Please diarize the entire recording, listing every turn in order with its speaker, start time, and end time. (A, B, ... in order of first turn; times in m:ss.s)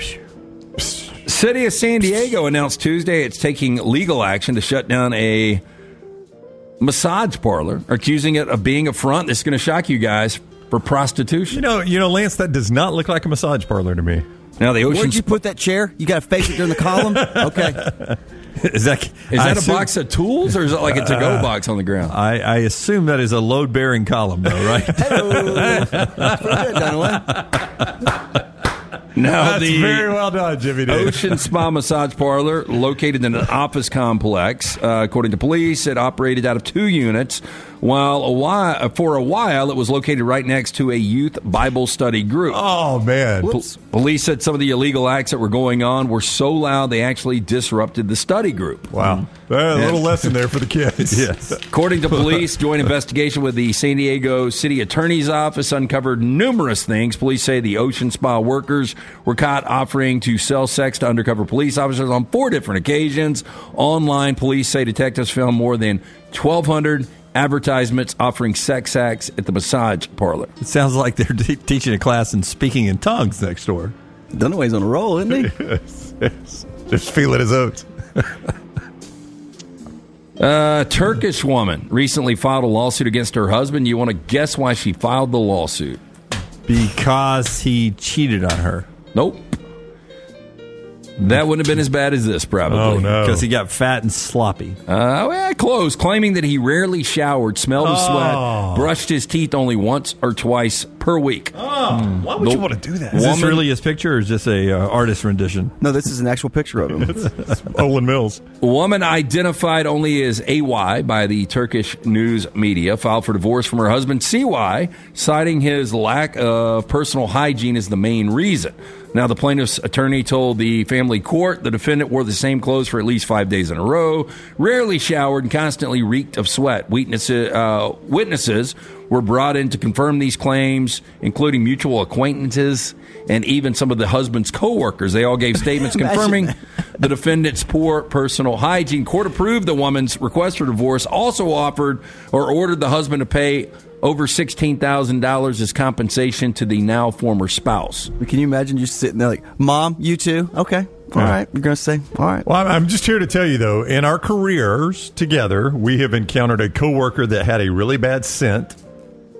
0:00.8-0:01.1 A
0:01.2-0:05.6 B
0:06.8-0:11.6 B
0:11.5-0:14.2 A
0:14.6-0:15.3 B
0:14.9-0:17.9 C
0:16.9-0:18.0 A
0:18.6-0:19.9 D
0:19.3-0:22.2 B
0:20.9-0:21.5 A
0:22.1-0:25.4 D
0:24.9-0:27.4 A
0:25.0-0:27.5 C
0:29.2-0:30.2 B
0:29.4-0:31.5 A
0:30.9-0:42.6 B
0:42.5-0:43.6 A
0:43.8-0:48.9 B
0:48.9-0:51.6 A
0:49.0-0:50.3 D
0:51.0-0:51.6 D
0:51.7-1:10.5 B
1:10.6-1:14.0 D
1:14.3-1:15.6 C
1:15.3-1:17.9 A
1:20.4-1:26.0 B
1:26.7-1:28.9 D
1:29.1-1:29.6 B
1:31.2-1:33.2 B
1:32.7-1:33.4 A
1:33.2-1:34.8 D
1:34.9-1:41.6 B
1:37.8-1:38.9 A
1:41.6-1:43.4 A
1:41.9-1:42.3 D
1:42.4-1:43.6 B
1:43.1-1:45.8 D
1:45.8-1:47.2 C
1:47.2-1:48.4 A
1:48.6-2:28.1 B
2:16.0-2:16.5 C
2:28.2-2:32.4 C
2:32.4-2:38.8 A